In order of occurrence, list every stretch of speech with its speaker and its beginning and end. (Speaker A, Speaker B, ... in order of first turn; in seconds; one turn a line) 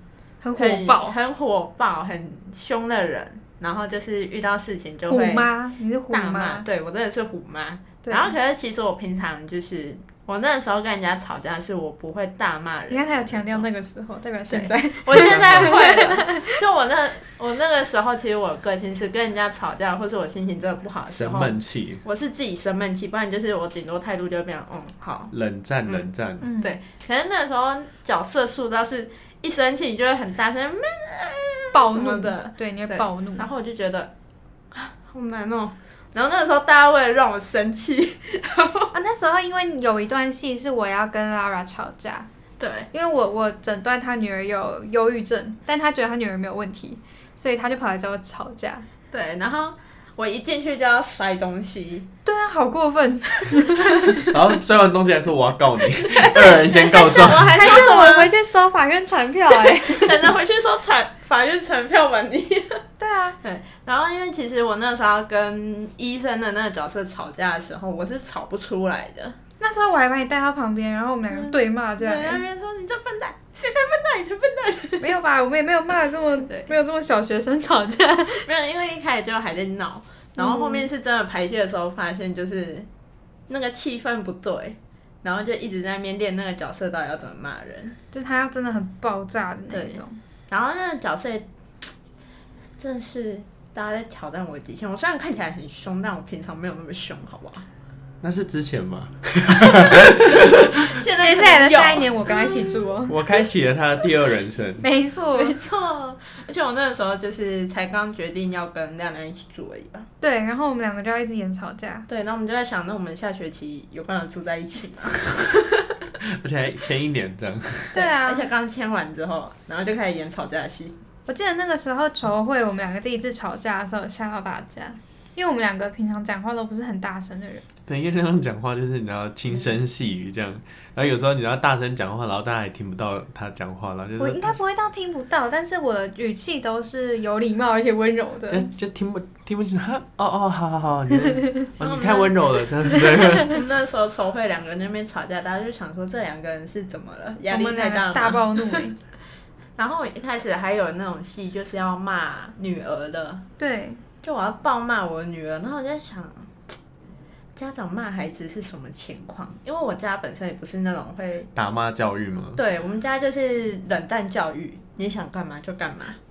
Speaker A: 0.4-1.2
Speaker B: 0.6-5.5
Speaker A: 5.1-6.6
Speaker B: 6.1-13.7
Speaker A: 8.0-8.3
Speaker A: 12.9-16.6
Speaker B: 14.5-25.3
Speaker C: 15.1-15.8
Speaker C: 21.1-22.0
Speaker C: 25.3-26.5
Speaker A: 26.4-26.7
Speaker B: 26.6-34.1
Speaker A: 31.7-33.5
Speaker B: 34.7-38.9
Speaker A: 38.9-42.3
Speaker B: 42.6-42.9
Speaker A: 42.9-48.8
Speaker B: 49.1-52.1
Speaker A: 52.2-54.3
Speaker C: 54.2-57.6
Speaker B: 56.0-58.3
Speaker A: 57.4-60.3
Speaker B: 59.5-62.8
Speaker A: 63.0-63.4
Speaker B: 63.4-69.4
Speaker A: 69.6-72.4
Speaker B: 71.3-75.1
Speaker A: 75.0-78.5
Speaker B: 78.4-82.9
Speaker A: 80.4-80.9
Speaker B: 83.5-88.0
Speaker A: 88.1-90.2
Speaker B: 89.7-91.9
Speaker B: 92.8-97.6
Speaker C: 98.2-101.0
Speaker B: 100.3-103.0
Speaker A: 101.2-103.2
Speaker C: 103.1-104.9
Speaker A: 104.8-105.5
Speaker B: 105.3-110.1
Speaker A: 110.2-112.0
Speaker B: 112.1-116.0
Speaker C: 116.2-118.0
Speaker A: 117.9-118.5
Speaker B: 117.9-121.0
Speaker A: 121.3-127.6
Speaker C: 127.8-134.6
Speaker A: 134.2-138.7
Speaker C: 138.5-143.6
Speaker B: 141.8-142.7
Speaker A: 142.8-143.4
Speaker B: 143.2-148.9
Speaker A: 147.5-148.9
Speaker B: 149.8-153.4
Speaker A: 153.6-154.0
Speaker B: 154.2-156.7
Speaker B: 157.6-161.5
Speaker C: 161.5-162.6
Speaker B: 162.6-166.2